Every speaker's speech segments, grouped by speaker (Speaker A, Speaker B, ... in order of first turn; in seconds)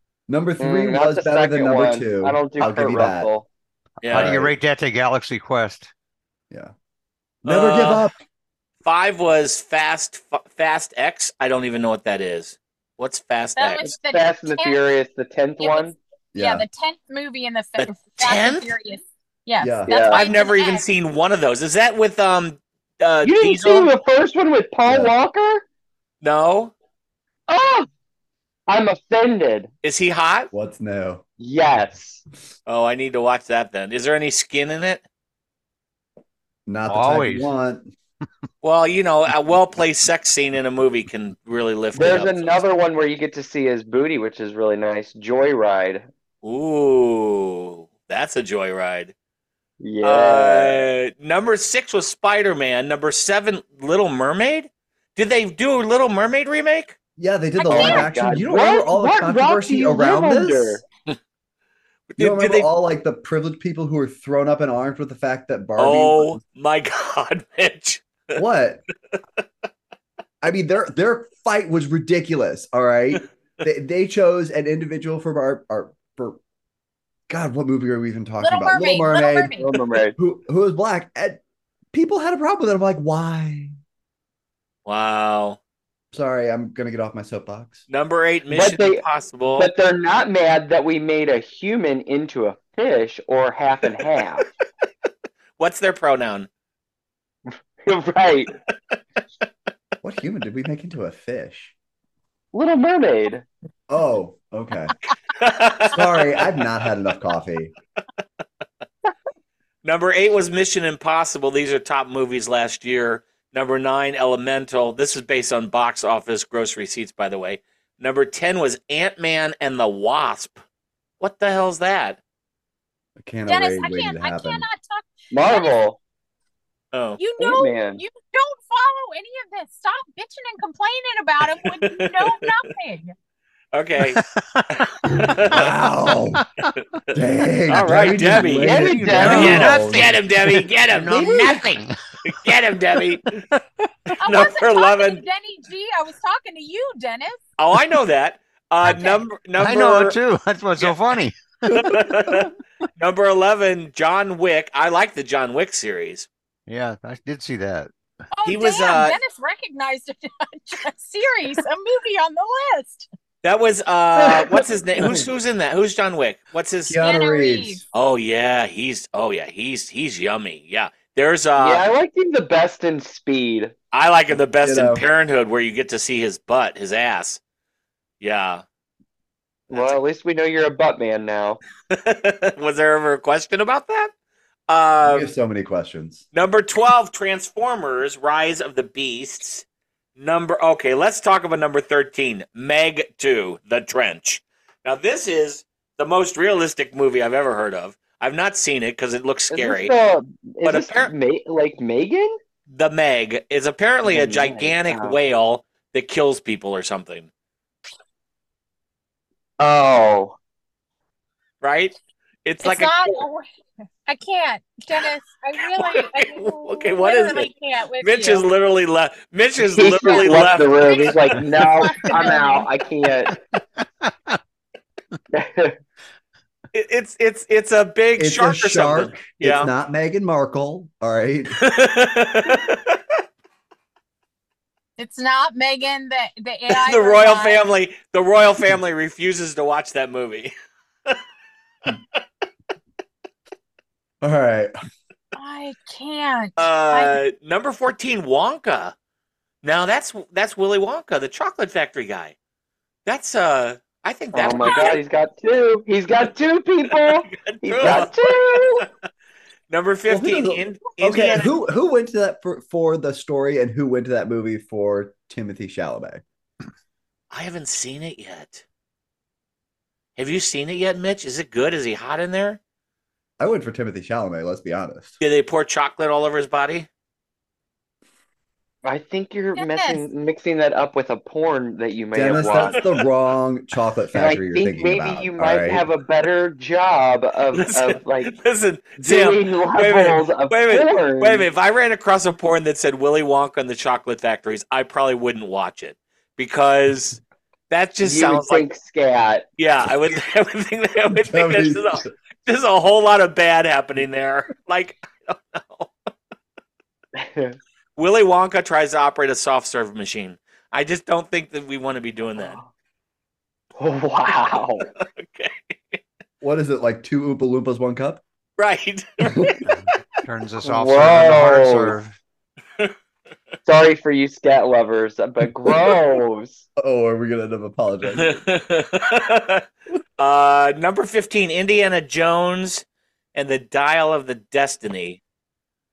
Speaker A: 0.3-3.3, 4.1-4.5, 7.4-8.1, 16.3-16.6, 19.6-20.0, 24.9-25.1, 30.5-31.2, 36.7-37.9, 57.2-60.8, 62.2-66.4, 68.3-68.8, 70.4-76.4, 77.3-79.6, 80.2-81.4, 81.9-83.8, 86.1-87.8, 100.0-101.7, 103.9-104.9, 105.9-107.7, 123.2-124.7, 135.5-136.4, 137.1-140.1, 166.9-167.8, 174.6-175.0, 185.0-186.2, 228.2-231.6, 244.2-244.7, 260.1-266.2, 273.4-275.2, 282.1-285.8, 301.1-302.1, 316.4-318.2, 326.8-328.4
Speaker B: 0.6-3.5, 13.8-15.9, 19.9-20.2, 23.2-25.6, 27.5-27.9, 28.7-29.7, 31.4-32.2, 41.9-46.0, 49.8-50.8, 57.7-60.8, 79.6-80.2, 88.5-89.0, 89.6-94.5, 97.8-98.5, 102.5-103.5, 125.3-126.0, 127.4-128.0, 138.6-139.8, 164.2-164.6, 171.6-173.7, 179.7-181.6, 199.5-202.4, 204.1-205.2, 209.6-210.3, 219.7-223.4, 225.3-225.8, 254.3-258.9, 278.8-282.8, 284.1-288.3, 289.0-291.5, 298.0-299.4, 307.2-307.6, 312.4-312.6, 313.8-314.9, 320.6-322.0, 323.6-326.6
Speaker C: 4.0-4.3, 7.4-8.1, 8.8-13.8, 17.8-18.7, 20.1-23.9, 26.2-26.7, 29.8-30.5, 32.6-35.0, 38.6-42.6, 46.4-49.1, 50.0-57.0, 62.1-62.7, 65.8-68.4, 84.8-85.6, 87.9-89.7, 95.6-96.5, 105.4-106.4, 109.8-120.6, 121.2-122.2, 126.9-127.2, 131.7-132.5, 133.7-135.6, 137.7-143.6, 144.1-145.2, 147.6-150.2, 151.7-156.3, 158.4-159.2, 163.4-167.0, 167.9-171.8, 173.9-177.4, 178.2-178.6, 179.7-179.9, 181.9-184.1, 184.7-185.3, 186.3-189.6, 190.2-199.9, 200.6-201.1, 202.7-207.3, 211.6-213.0, 215.8-217.5, 218.0-221.3, 226.7-229.7, 231.6-233.0, 236.7-240.5, 246.6-248.9, 249.6-252.3, 253.1-255.0, 256.9-258.9, 259.7-261.5, 267.3-268.6, 270.2-272.6, 275.2-276.9, 282.6-282.9, 287.5-298.6, 299.6-305.9, 308.0-312.6, 315.0-316.0, 318.6-319.7, 328.1-329.6, 330.2-335.2
Speaker D: 4.0-5.9, 36.9-37.5, 134.2-135.3, 136.4-136.7, 139.0-140.1, 140.9-142.0, 149.6-152.4, 156.7-157.9, 223.5-224.4, 320.2-322.1
Speaker E: 13.6-14.8, 15.6-20.9, 57.6-58.2, 78.4-79.7, 123.5-125.8, 127.2-133.1, 144.2-147.4, 148.8-149.2, 158.3-163.1, 167.0-167.8, 212.6-213.5, 214.1-218.4, 220.0-222.7, 235.0-237.6, 245.3-247.2, 254.7-254.9, 279.6-280.0